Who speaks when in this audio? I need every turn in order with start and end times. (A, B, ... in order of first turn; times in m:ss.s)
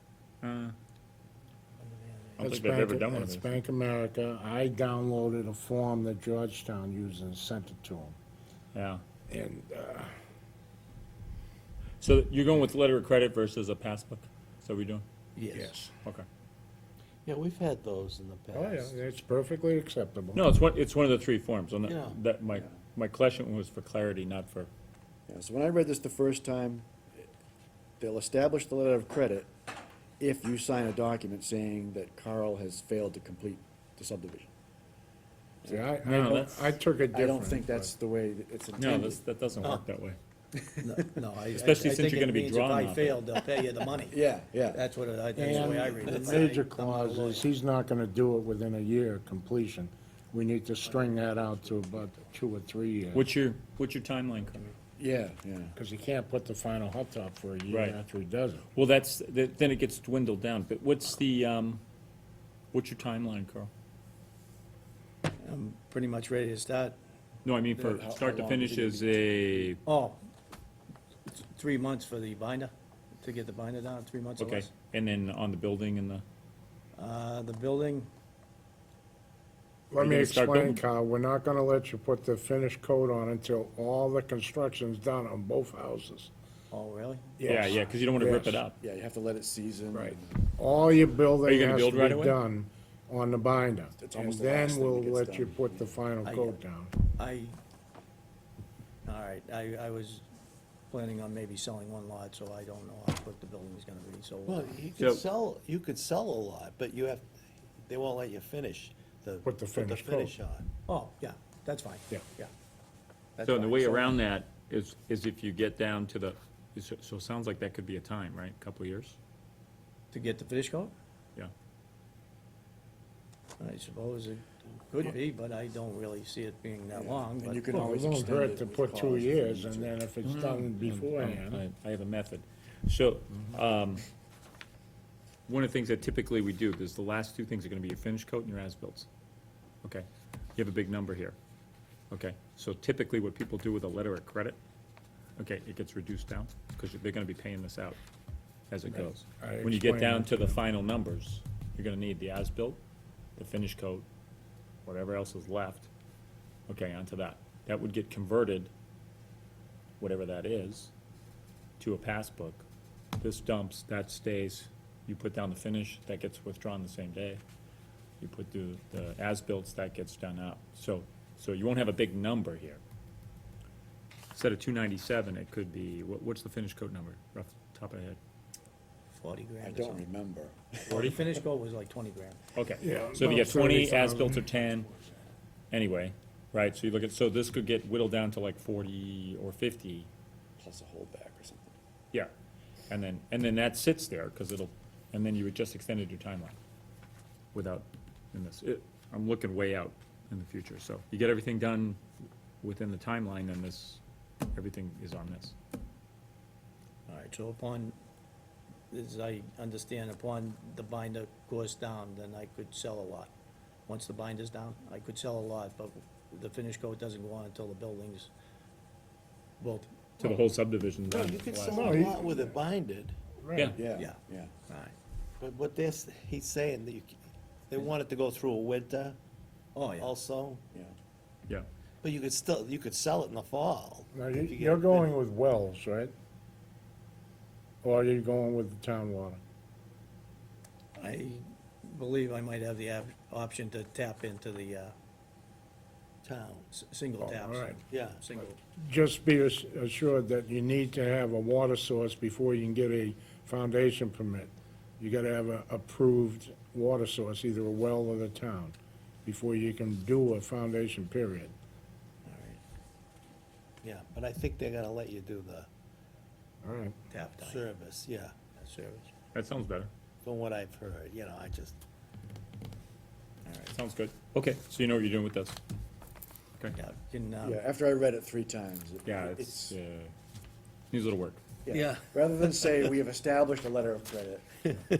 0:00.4-0:00.7 A
0:01.8-0:02.4 B
0:02.4-0:08.2 C
0:02.4-0:03.6 A
0:08.7-0:09.0 A
0:09.3-0:10.1 C
0:12.0-0:15.0 A
0:15.4-0:15.8 D
0:15.5-0:15.9 C
0:17.2-0:19.0 D
0:18.5-0:20.4 C
0:20.3-0:24.7 A
0:21.8-0:22.2 D
0:25.3-0:27.2 E
0:28.0-0:29.5 E
0:30.2-0:34.5 E
0:35.6-0:36.5 E
0:35.6-0:37.9 C
0:36.0-0:36.7 A
0:37.1-0:39.2 E
0:38.8-0:40.2 A
0:40.8-0:47.5 B
0:41.5-0:43.2 A
0:44.1-0:44.8 E
0:45.4-0:53.3 C
0:53.1-0:54.7 A
0:55.0-0:55.7 E
0:55.7-0:58.7 C
0:57.7-0:58.0 A
0:58.7-1:01.8 A
1:02.7-1:03.7 A
1:05.4-1:07.0 B
1:07.4-1:09.8 A
1:07.7-1:09.8 E
1:09.8-1:10.2 B
1:11.2-1:14.7 B
1:14.4-1:16.2 A
1:17.0-1:18.1 B
1:19.9-1:26.3 C
1:20.0-1:20.8 A
1:26.7-1:27.5 B
1:27.4-1:28.6 C
1:27.5-1:28.8 A
1:28.8-1:30.5 E
1:29.9-1:30.2 A
1:30.6-1:36.9 C
1:31.4-1:32.4 A
1:34.0-1:35.9 E
1:36.2-1:37.6 B
1:39.0-1:40.2 B
1:40.9-1:44.8 B
1:44.4-1:47.3 D
1:45.0-1:45.2 A
1:47.8-1:50.7 D
1:49.4-1:50.3 C
1:50.8-1:52.5 B
1:53.4-1:54.2 D
1:53.4-1:59.2 A
2:00.1-2:00.9 B
2:03.6-2:08.1 B
2:06.9-2:10.0 E
2:07.7-2:11.6 C
2:10.2-2:14.0 A
2:15.5-2:19.1 A
2:19.8-2:21.4 A
2:22.1-2:24.6 A
2:25.4-2:28.0 A
2:28.7-2:32.8 A
2:28.9-2:30.6 C
2:33.4-2:34.0 A
2:34.8-2:35.9 A
2:36.7-2:38.7 A
2:40.0-2:40.9 A
2:41.8-2:42.6 A
2:43.2-2:47.4 A
2:48.2-2:52.8 A
2:54.3-2:58.2 A
2:59.1-3:00.0 B
2:59.6-3:01.3 E
3:00.9-3:02.4 B
3:00.9-3:01.2 A
3:02.5-3:04.9 A
3:02.8-3:04.4 C
3:05.7-3:10.1 A
3:10.6-3:11.8 E
3:12.9-3:16.6 A
3:17.5-3:22.0 A
3:22.6-3:24.0 A
3:24.5-3:25.5 A
3:27.1-3:27.9 B
3:28.9-3:33.3 B
3:33.9-3:38.3 B
3:39.6-3:40.2 B
3:40.2-3:42.0 A
3:41.1-3:43.1 D
3:41.7-3:42.6 C
3:43.4-3:43.8 C
3:43.8-3:44.5 E
3:43.9-3:44.9 B
3:45.4-3:47.2 D
3:47.7-3:49.2 D
3:49.7-3:50.1 B
3:50.0-3:50.6 D
3:52.0-3:55.1 D
3:54.1-3:56.1 C
3:57.8-3:59.4 C
4:01.0-4:04.9 B
4:06.2-4:08.6 B
4:07.2-4:07.8 C
4:07.9-4:08.2 D
4:08.7-4:21.5 C
4:22.2-4:22.6 B
4:23.8-4:25.7 D
4:26.6-4:26.9 C
4:27.1-4:27.7 B
4:27.4-4:29.0 D
4:28.5-4:29.0 B
4:29.3-4:29.9 A
4:30.2-4:31.7 D
4:33.7-4:35.6 A
4:36.7-4:37.6 B
4:37.4-4:39.8 E
4:39.0-4:40.1 A
4:40.9-4:41.4 A
4:41.6-4:44.7 E
4:41.7-4:42.0 D